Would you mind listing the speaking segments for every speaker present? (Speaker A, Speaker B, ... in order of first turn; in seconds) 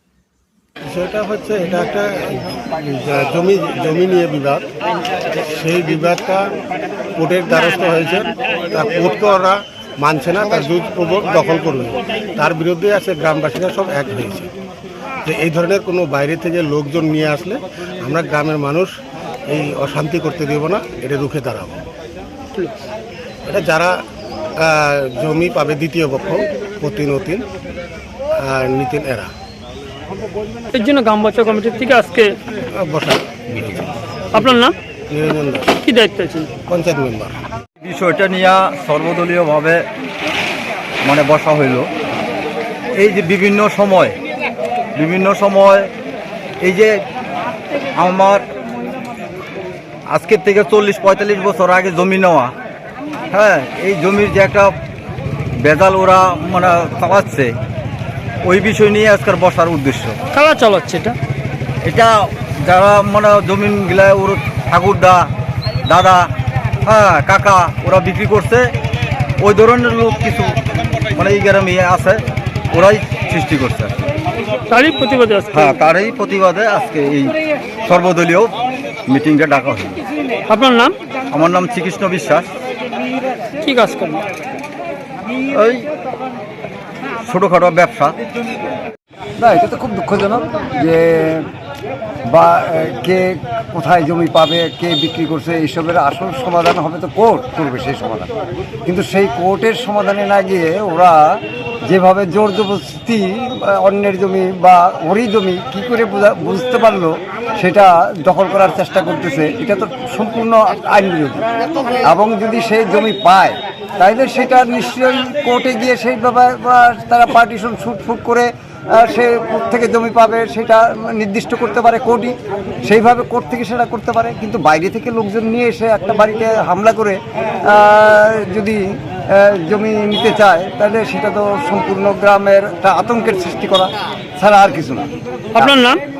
Speaker A: 0.9-4.7, 5.5-6.5, 7.2-14.5, 15.2-18.9, 19.5-21.9, 23.5-24.0, 24.6-27.4, 28.4-29.3, 32.7-34.6, 35.1-35.8, 36.6-37.3
Speaker B: 30.7-32.4, 34.3-34.7, 35.9-36.5, 60.3-61.2, 74.7-75.8, 80.5-81.0, 83.6-84.2, 135.6-136.0
Speaker C: 37.8-39.9, 41.0-41.9, 43.0-44.1, 45.0-45.9, 46.6-46.9, 48.0-48.4, 50.1-52.5, 53.3-54.7, 55.6-57.5, 58.5-60.2, 61.8-65.3, 65.9-66.3, 66.8-68.7, 69.4-70.6, 71.1-72.2, 72.7-73.9, 75.5-78.5, 79.1-80.0, 81.3-82.5, 85.5-85.9, 87.2-88.2
Speaker D: 89.4-91.5, 92.3-98.3, 98.9-101.3, 101.9-111.5, 112.0-122.3, 122.9-128.8, 129.3-135.8